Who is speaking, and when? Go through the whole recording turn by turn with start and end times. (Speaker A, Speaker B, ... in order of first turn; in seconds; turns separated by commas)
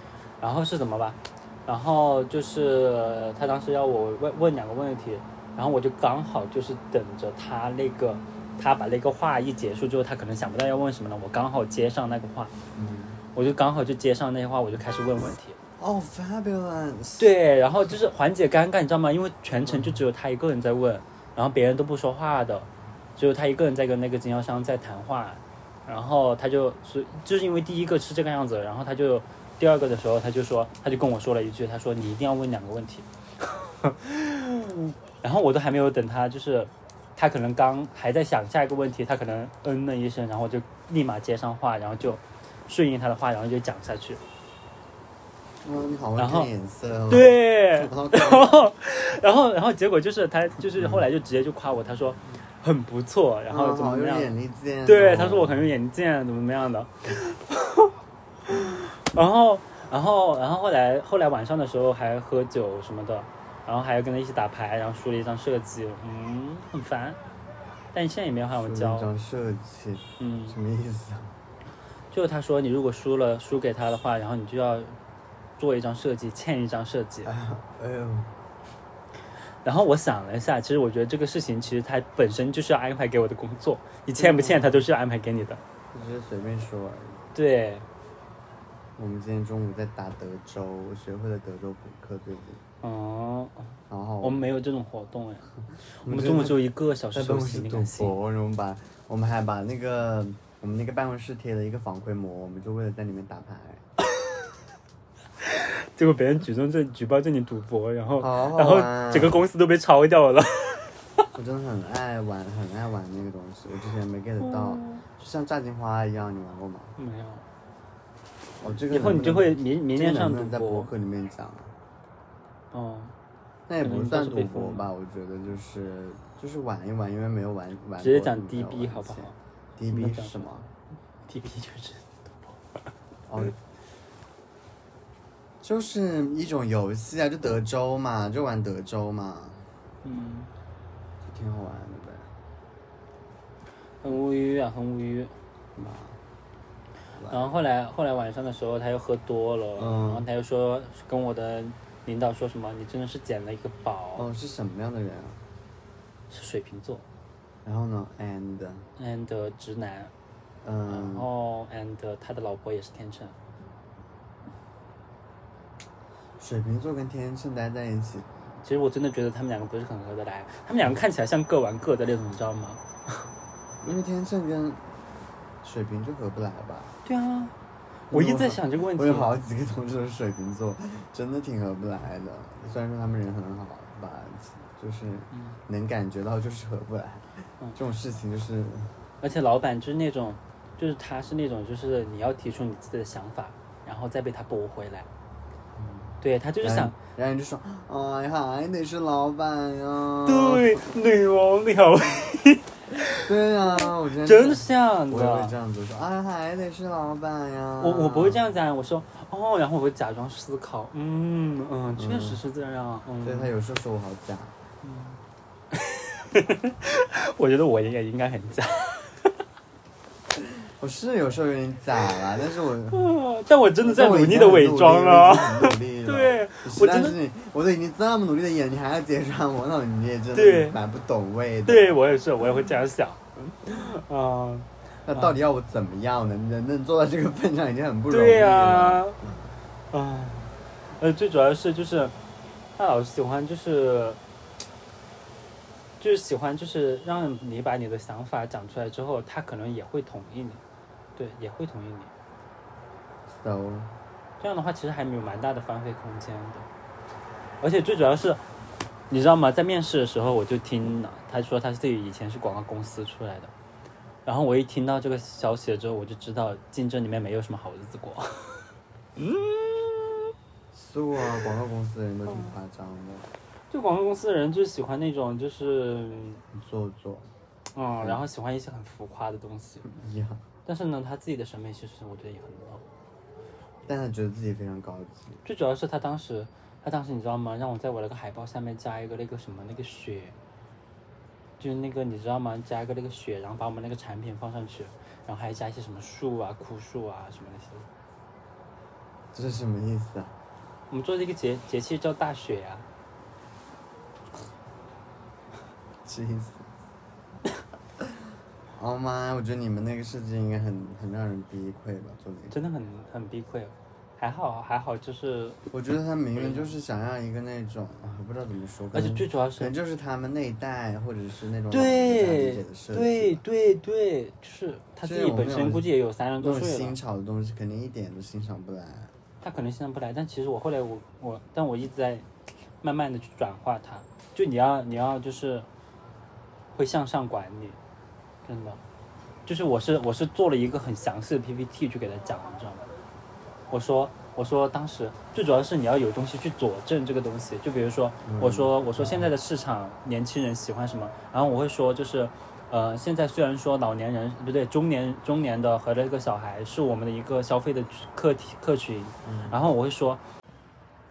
Speaker A: 0.4-12.5, Speaker B: 12.7-13.2, Speaker A: 13.3-15.6, Speaker B: 15.8-17.3, Speaker A: 17.2-33.0, Speaker B: 19.7-19.9, Speaker A: 33.6-44.2, Speaker B: 45.6-48.6, Speaker A: 46.2-46.5, Speaker A: 47.1-54.3, Speaker B: 53.5-55.7, Speaker A: 54.8-57.9, Speaker A: 58.5-67.2, Speaker A: 67.9-69.1, Speaker B: 68.6-71.3, Speaker A: 70.2-70.5, Speaker A: 72.1-75.0, Speaker A: 75.6-77.3, Speaker B: 77.2-78.3, Speaker A: 79.6-85.6, Speaker B: 84.2-84.8, Speaker B: 85.9-87.2, Speaker A: 87.3-87.8, Speaker B: 89.0-92.6, Speaker A: 92.8-98.1, Speaker B: 93.9-94.5, Speaker B: 96.0-103.8, Speaker A: 105.4-111.0, Speaker B: 108.2-109.4, Speaker B: 111.3-116.9, Speaker A: 114.4-115.0, Speaker A: 117.0-117.4, Speaker B: 118.6-121.7, Speaker A: 118.9-120.9, Speaker A: 122.7-123.1, Speaker B: 123.7-130.7, Speaker A: 123.8-124.9, Speaker A: 128.0-129.3, Speaker A: 129.9-130.5, Speaker A: 131.3-132.1, Speaker B: 133.3-133.6, Speaker B: 135.6-139.7, Speaker A: 140.0-140.5, Speaker B: 141.2-142.3, Speaker A: 144.0-145.4, Speaker B: 145.8-146.2, Speaker B: 147.2-147.5, Speaker A: 147.3-154.3, Speaker B: 149.8-150.2, Speaker B: 154.2-155.4, Speaker A: 156.3-157.0, Speaker B: 157.6-158.9, Speaker A: 159.0-160.1, Speaker B: 160.6-161.3, Speaker A: 160.9-163.3, Speaker B: 166.4-168.4, Speaker A: 168.6-173.3, Speaker B: 173.8-177.0, Speaker A: 177.0-177.5, Speaker A: 178.1-179.3, Speaker B: 178.1-188.9, Speaker A: 189.2-195.1, Speaker B: 195.7-200.8, Speaker A: 196.2-196.9, Speaker A: 200.2-205.5, Speaker B: 203.2-208.4, Speaker A: 207.8-213.5, Speaker B: 211.9-212.4, Speaker B: 213.2-214.5, Speaker A: 214.8-215.2, Speaker A: 215.7-219.3, Speaker B: 220.6-223.1, Speaker A: 222.9-227.2, Speaker B: 223.8-232.0, Speaker A: 230.3-230.8, Speaker A: 231.7-235.3, Speaker B: 235.0-239.3, Speaker A: 238.1-239.2, Speaker A: 239.9-242.1, Speaker A: 242.8-244.2, Speaker A: 246.0-250.6, Speaker A: 251.2-252.1, Speaker B: 253.3-253.9, Speaker A: 254.4-256.7, Speaker A: 257.6-258.4, Speaker A: 259.1-263.5, Speaker A: 264.2-270.0, Speaker B: 270.7-273.3, Speaker A: 273.7-276.4, Speaker B: 276.5-277.3, Speaker A: 277.7-279.9, Speaker B: 279.9-280.4, Speaker A: 280.6-282.8, Speaker B: 283.9-285.4, Speaker A: 285.4-290.4, Speaker A: 291.6-297.9, Speaker B: 299.3-300.3, Speaker A: 300.9-302.9, Speaker B: 306.0-306.7, Speaker B: 308.7-312.6, Speaker A: 312.5-315.6, Speaker B: 315.7-323.4, Speaker A: 316.3-316.7, Speaker A: 318.9-319.7, Speaker A: 321.7-327.0, Speaker B: 325.0-325.9, Speaker B: 326.4-329.1, Speaker A: 329.4-332.3, Speaker A: 332.8-335.7, Speaker A: 336.7-337.8, Speaker A: 338.4-338.8, Speaker A: 339.4-342.8, Speaker A: 343.7-360.2, Speaker B: 348.2-349.3, Speaker B: 359.2-359.6